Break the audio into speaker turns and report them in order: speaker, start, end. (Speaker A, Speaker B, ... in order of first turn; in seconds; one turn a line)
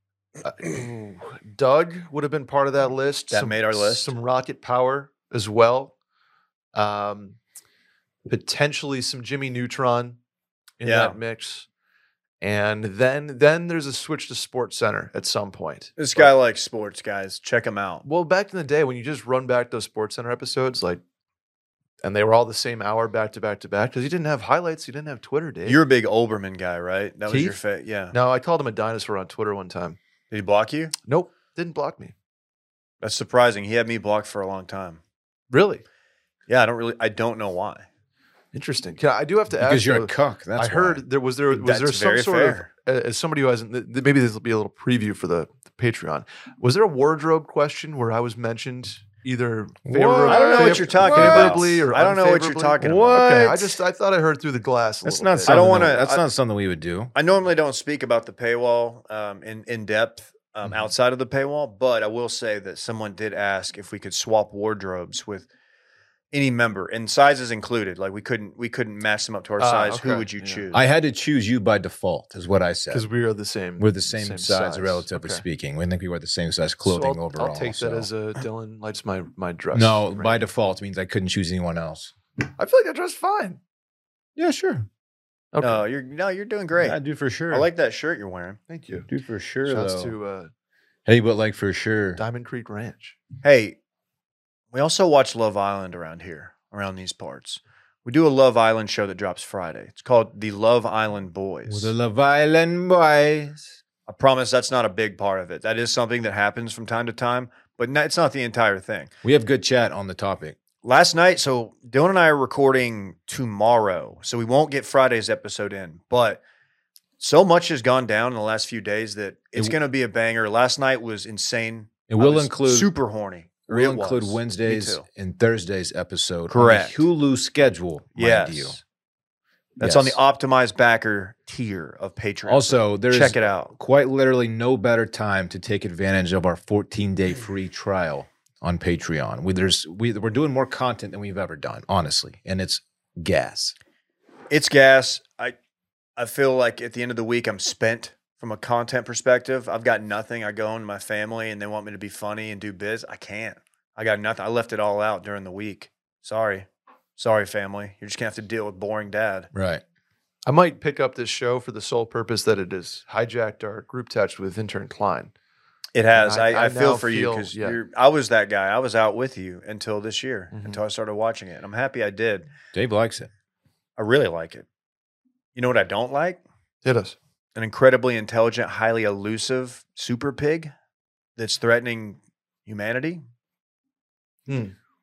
Speaker A: 0.4-5.9
Speaker B: 3.3-4.1
Speaker A: 6.7-7.4
Speaker A: 8.3-10.2
Speaker A: 10.8-11.7
Speaker B: 10.8-11.2
Speaker A: 12.4-16.3
Speaker B: 16.0-18.1
Speaker A: 18.1-21.0
Speaker A: 22.0-25.8
Speaker B: 25.7-28.1
Speaker A: 27.3-27.6
Speaker A: 28.1-30.0
Speaker B: 30.3-30.9
Speaker A: 31.1-32.1
Speaker B: 33.0-35.0
Speaker A: 35.5-35.8
Speaker B: 36.5-37.9
Speaker A: 38.5-55.7
Speaker C: 39.6-41.0
Speaker B: 41.5-42.7
Speaker C: 49.9-51.6
Speaker B: 50.2-53.1
Speaker C: 52.8-53.8
Speaker C: 55.1-57.1
Speaker B: 55.5-56.2
Speaker B: 57.1-65.5
Speaker B: 66.3-70.8
Speaker A: 69.6-70.7
Speaker C: 70.7-73.1
Speaker A: 72.9-75.4
Speaker C: 73.8-78.1
Speaker A: 76.8-80.4
Speaker C: 79.7-82.1
Speaker A: 82.6-83.6
Speaker C: 84.4-84.9
Speaker A: 85.5-85.8
Speaker B: 85.6-87.0
Speaker C: 86.8-87.7
Speaker B: 87.5-88.6
Speaker A: 88.7-89.1
Speaker C: 89.1-90.1
Speaker A: 89.7-90.5
Speaker C: 91.1-92.2
Speaker A: 92.2-93.2
Speaker B: 93.4-93.8
Speaker B: 94.7-101.9
Speaker C: 101.7-103.8
Speaker B: 104.1-109.1
Speaker C: 109.2-110.6
Speaker B: 110.8-116.4
Speaker B: 117.2-125.0
Speaker C: 122.1-122.9
Speaker C: 123.7-128.8
Speaker B: 126.5-127.0
Speaker B: 128.2-128.8
Speaker B: 129.8-133.7
Speaker C: 129.8-130.2
Speaker C: 132.4-143.8
Speaker B: 144.5-145.5
Speaker B: 146.2-156.7
Speaker B: 157.2-159.5
Speaker C: 159.5-159.8
Speaker A: 160.5-165.3
Speaker B: 165.9-172.5
Speaker A: 166.2-167.8
Speaker A: 170.5-170.8
Speaker C: 172.7-173.3
Speaker B: 174.0-174.7
Speaker B: 175.6-176.4
Speaker A: 176.8-177.2
Speaker B: 177.6-180.7
Speaker B: 181.4-183.2
Speaker A: 184.5-184.8